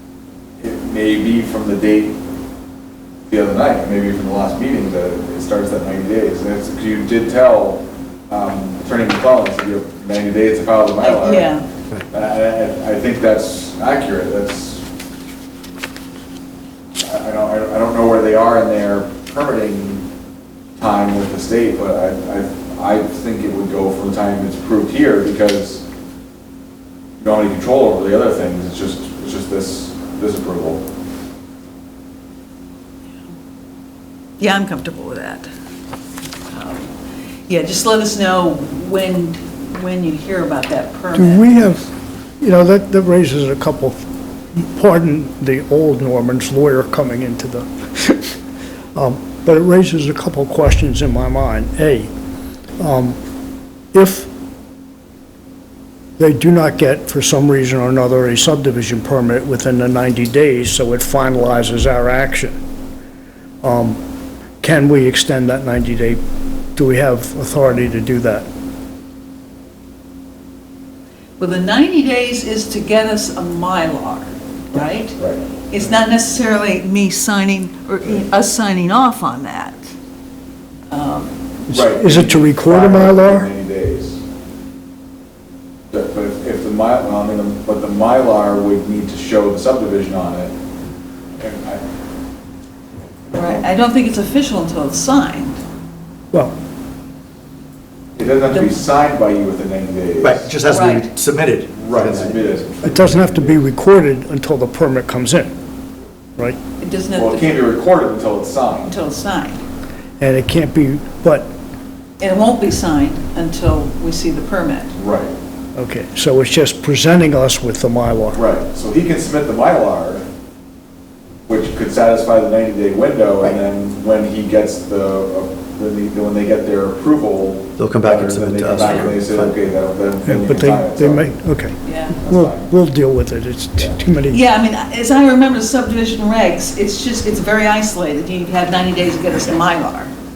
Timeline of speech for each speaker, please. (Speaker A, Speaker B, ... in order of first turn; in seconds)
Speaker A: 0.6-2.2, 3.3-11.5, 12.1-14.8, 17.0-20.1, 20.8-25.8, 27.2-30.8, 75.2-75.4, 81.7-84.2, 85.9-90.5, 91.4-91.8, 98.2-100.5, 101.7-103.6, 107.2-108.9, 115.0-115.3, 118.3-120.2, 121.5-131.3, 132.2-132.7, 133.7-134.0
Speaker B: 11.0-11.7, 34.4-35.5, 36.5-36.9, 37.5-41.8, 71.4-75.2, 75.7-79.9, 80.9-81.4, 93.3-95.6, 100.7-101.1, 106.8-107.5, 108.8-109.6, 112.2-114.9, 131.8-132.2, 134.3-140.1
Speaker C: 41.1-41.9, 42.4-44.0, 44.5-48.4, 49.0-52.1, 52.8-53.2, 53.9-54.3, 56.2-62.6, 63.6-64.0, 64.6-66.2, 66.8-68.5, 81.7-83.5, 102.8-105.5, 110.2-111.5, 115.8-118.4, 130.3-134.4
Speaker D: 100.2-102.4, 127.8-129.5